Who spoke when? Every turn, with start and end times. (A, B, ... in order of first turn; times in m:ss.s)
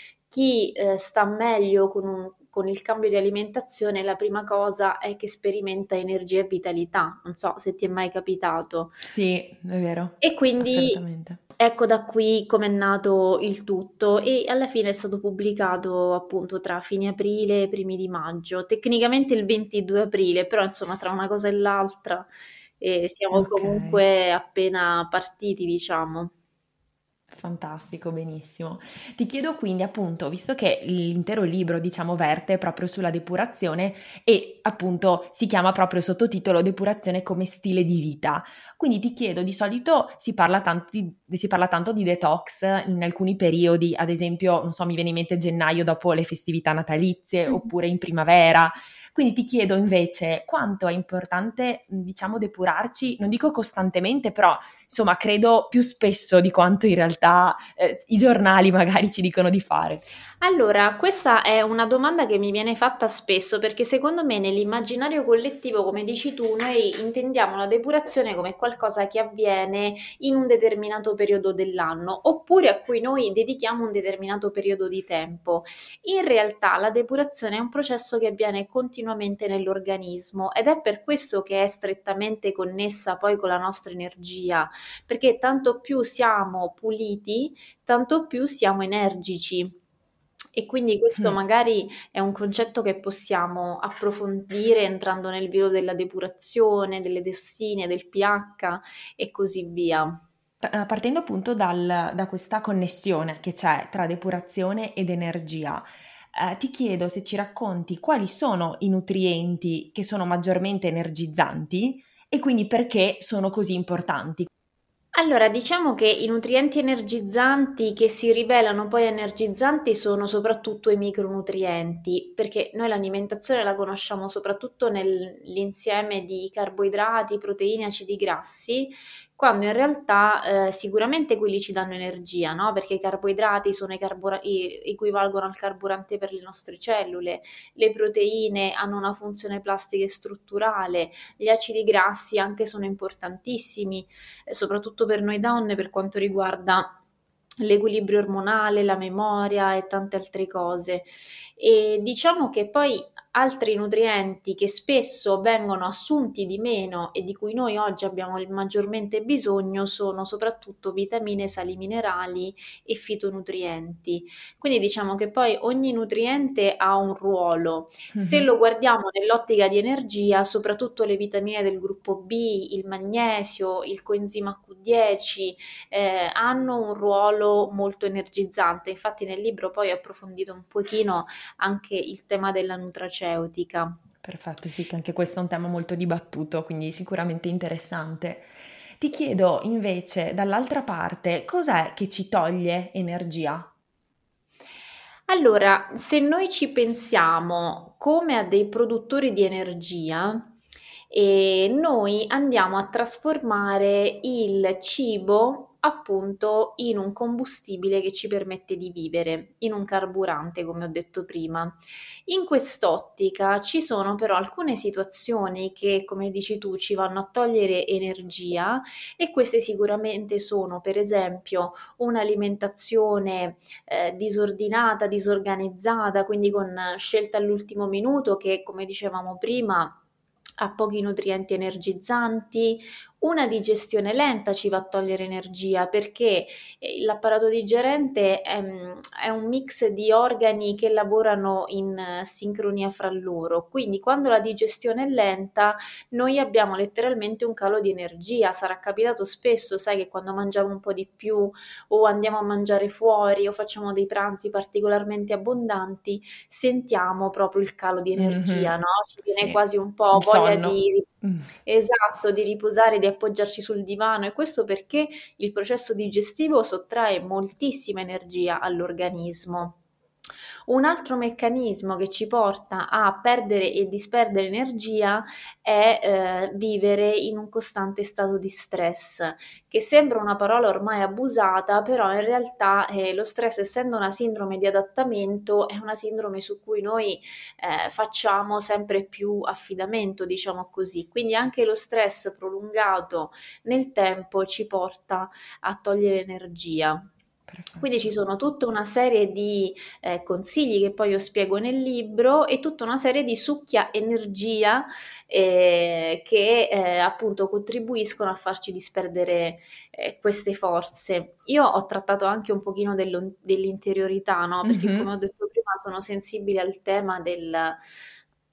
0:00.3-0:09.0 A
0:09.0-0:11.4 B
0:10.2-0:11.0 A
0:11.6-0:26.3 A
0:23.3-0:24.0 B
0:27.3-1:00.0 B
1:00.4-1:29.8 A
1:30.5-1:40.2 A
1:40.6-1:54.5 B
1:55.1-2:27.0 A
2:27.6-3:04.0 A
2:48.1-2:48.5 B
3:04.2-3:13.7 B
3:15.3-3:20.5 A
3:21.1-3:50.0 A
3:50.6-4:21.1 A
4:18.2-4:18.7 B
4:20.1-4:21.5 B
4:21.6-4:29.8 A
4:30.7-4:57.0 A
4:57.5-4:57.9 B
4:57.8-5:17.8 A
5:14.6-5:15.1 B